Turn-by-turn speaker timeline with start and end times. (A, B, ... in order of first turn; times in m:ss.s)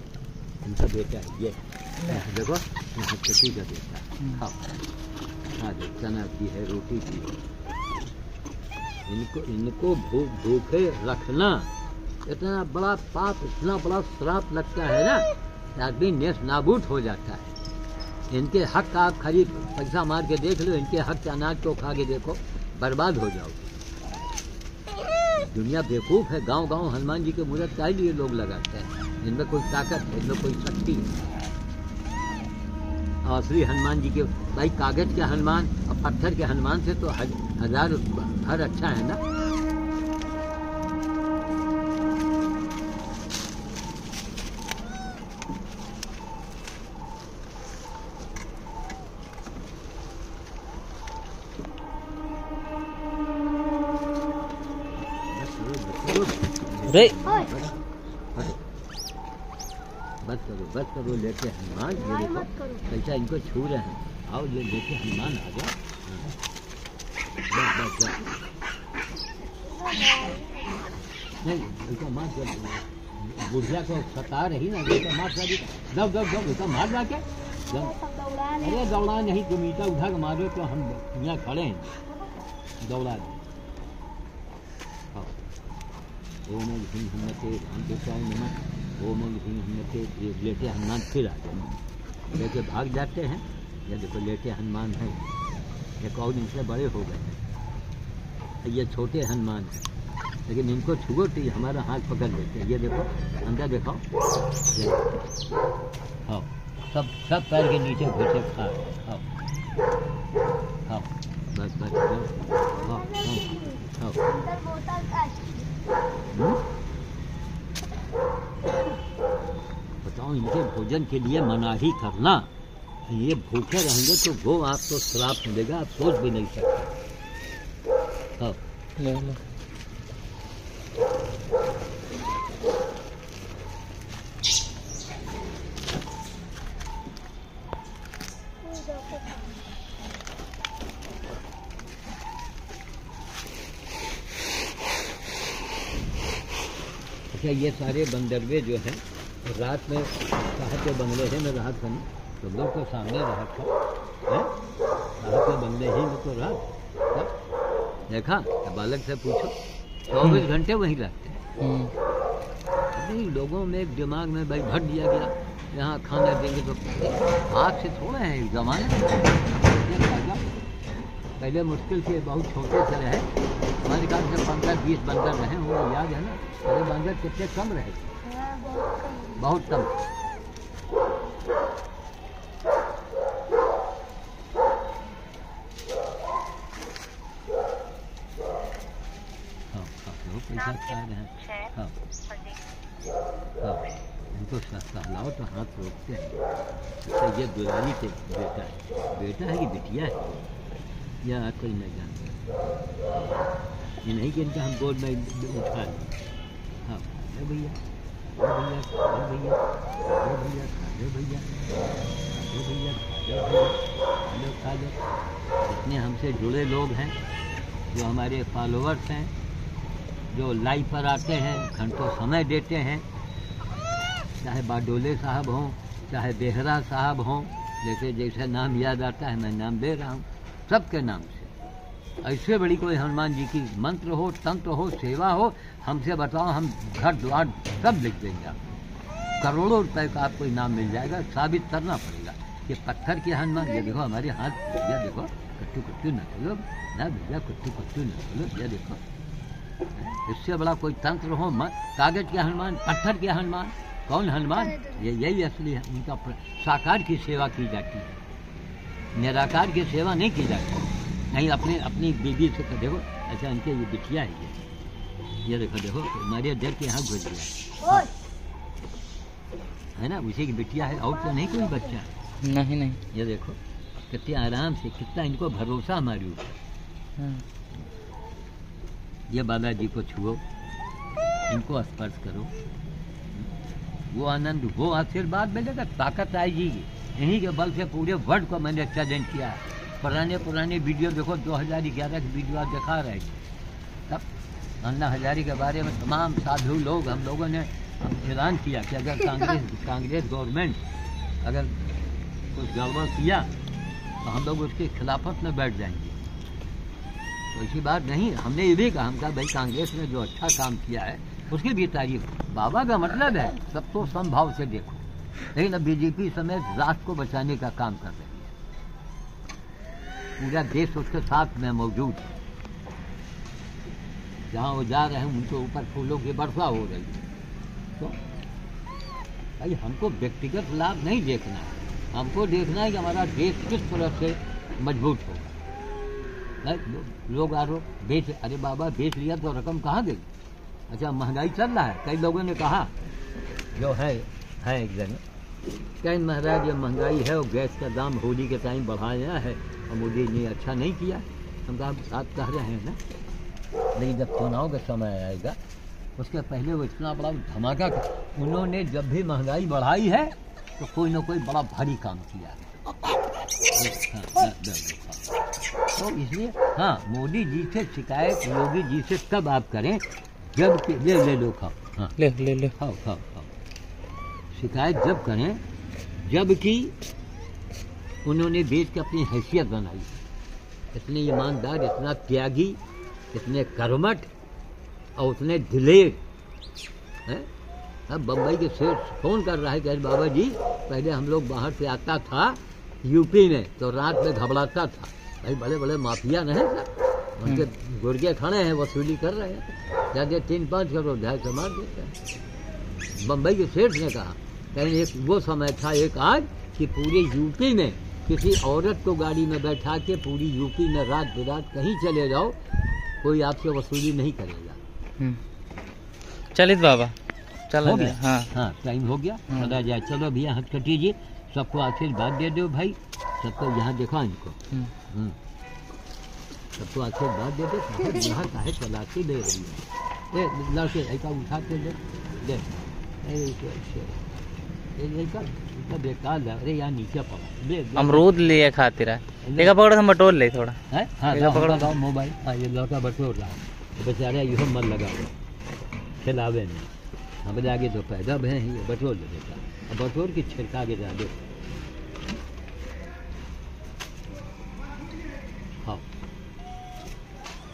0:00.6-0:04.6 A
0:05.6-0:07.4 A
0:09.1-0:11.7 A
0:12.2-0:17.5 A
0:18.3-0:23.7 A
0:25.4-0:31.1 A
0:33.2-0:39.2 A
0:55.3-0:57.7 A
0:57.2-0:57.6 B
0:58.3-0:58.6 A
1:00.2-1:06.3 A
1:01.9-1:02.9 B
1:07.5-1:08.3 A
1:09.6-1:10.9 B
1:11.4-1:17.9 A
1:17.7-1:18.9 B
1:18.6-1:22.0 A
1:22.8-1:23.4 A
1:26.4-1:31.8 A
1:32.3-1:35.3 A
1:36.0-1:37.4 A
1:38.6-1:39.8 A
1:40.5-1:44.0 A
1:44.7-1:45.0 A
1:46.3-1:49.2 A
1:50.8-1:54.2 A
1:52.8-1:55.8 B
1:56.3-1:56.6 A
2:00.0-2:02.5 A
2:03.0-2:06.9 A
2:09.0-2:09.4 C
2:18.6-2:19.7 B
2:27.3-2:33.7 A
2:34.3-2:34.5 A
2:35.2-2:37.3 A
2:38.1-2:39.5 A
2:40.1-2:41.4 A
2:41.6-2:41.9 C
2:42.9-2:50.6 A
2:51.4-2:53.3 A
2:53.8-2:58.1 A
2:58.2-2:59.5 B
2:59.4-2:59.9 A
3:09.7-3:11.9 A
3:13.6-3:16.4 A
3:17.0-3:20.3 A
3:21.2-3:22.4 A
3:24.0-3:26.2 A
3:26.8-3:27.8 A
3:28.3-3:31.5 A
3:32.3-3:35.0 A
3:35.6-3:37.2 A
3:37.9-3:39.3 A
3:40.3-3:43.0 A
3:44.4-3:51.5 A
3:52.2-3:58.6 A
3:59.4-4:09.0 A
4:03.7-4:03.9 B
4:09.9-4:18.2 A
4:14.5-4:15.0 B
4:19.1-4:24.6 A
4:25.4-4:28.1 A
4:27.8-4:28.1 B
4:30.0-4:32.1 A
4:31.0-4:32.0 B
4:32.4-4:33.0 C
4:33.1-4:33.6 A
4:34.1-4:36.5 A
4:39.3-4:40.4 A
4:41.5-4:42.5 A
4:44.1-4:53.4 A
4:54.8-5:00.8 A
5:01.4-5:01.7 A
5:02.5-5:03.5 A
5:04.2-5:06.2 A
5:07.5-5:18.5 A
5:20.4-5:22.3 A
5:24.5-5:27.2 A
5:29.6-5:35.6 A
5:36.6-5:40.3 A
5:40.9-5:42.9 A
5:43.7-5:45.2 A
5:46.0-5:53.0 A
5:53.9-5:55.6 A
5:56.2-6:02.7 A
6:03.7-6:05.2 A
6:05.9-6:12.2 A
6:12.2-6:12.7 C
6:12.7-6:13.5 A
6:14.5-6:15.6 A
6:16.2-6:16.9 A
6:18.2-6:20.2 A
6:20.9-6:22.8 A
6:23.3-6:24.3 A
6:25.2-6:26.2 A
6:28.1-6:42.1 A
6:43.2-6:52.6 A
6:53.2-6:54.8 A
6:56.5-6:57.1 C
6:57.7-6:58.5 C
6:57.8-7:04.6 A
7:05.1-7:05.4 A
7:06.8-7:14.2 A
7:15.0-7:18.4 A
7:18.0-7:20.8 C
7:19.4-7:19.8 A
7:20.9-7:25.4 A
7:21.3-7:21.9 C
7:26.2-7:26.9 A
7:27.4-7:31.4 A